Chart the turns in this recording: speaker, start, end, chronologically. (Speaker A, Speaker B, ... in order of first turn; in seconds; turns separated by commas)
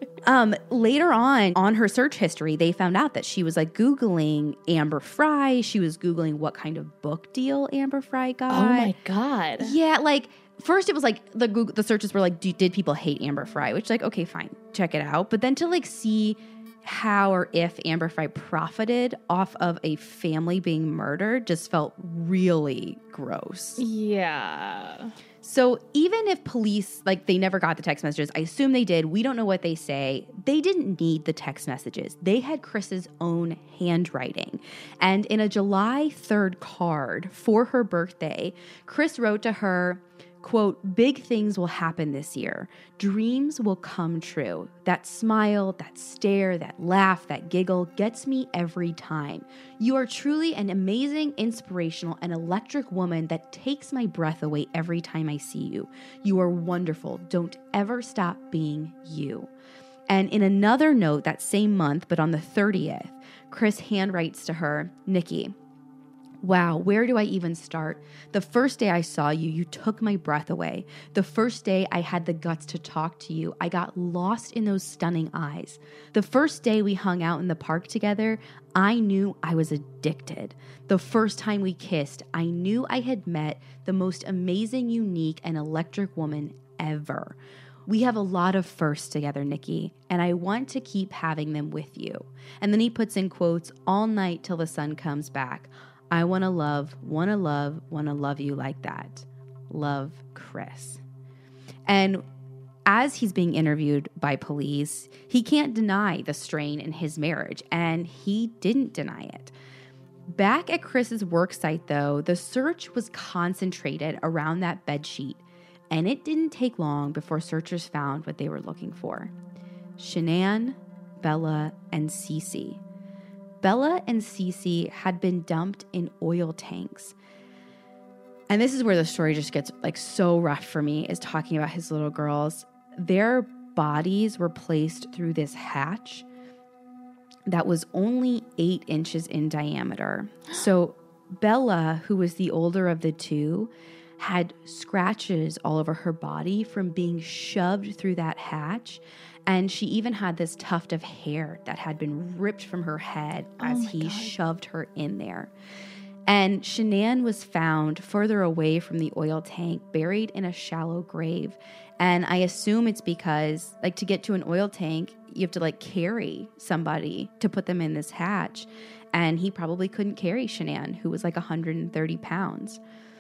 Speaker A: 0.2-8.9, Speaker B: 8.5-9.7, Speaker A: 9.6-23.8, Speaker B: 23.8-25.1, Speaker A: 25.4-59.5, Speaker A: 60.1-65.5, Speaker A: 66.4-87.3, Speaker A: 87.9-101.0, Speaker A: 101.9-102.2, Speaker A: 102.8-109.5, Speaker A: 110.3-119.3, Speaker A: 120.0-122.8, Speaker A: 123.6-127.1, Speaker A: 128.5-136.2, Speaker A: 137.5-155.5, Speaker B: 153.6-154.3, Speaker A: 156.3-172.8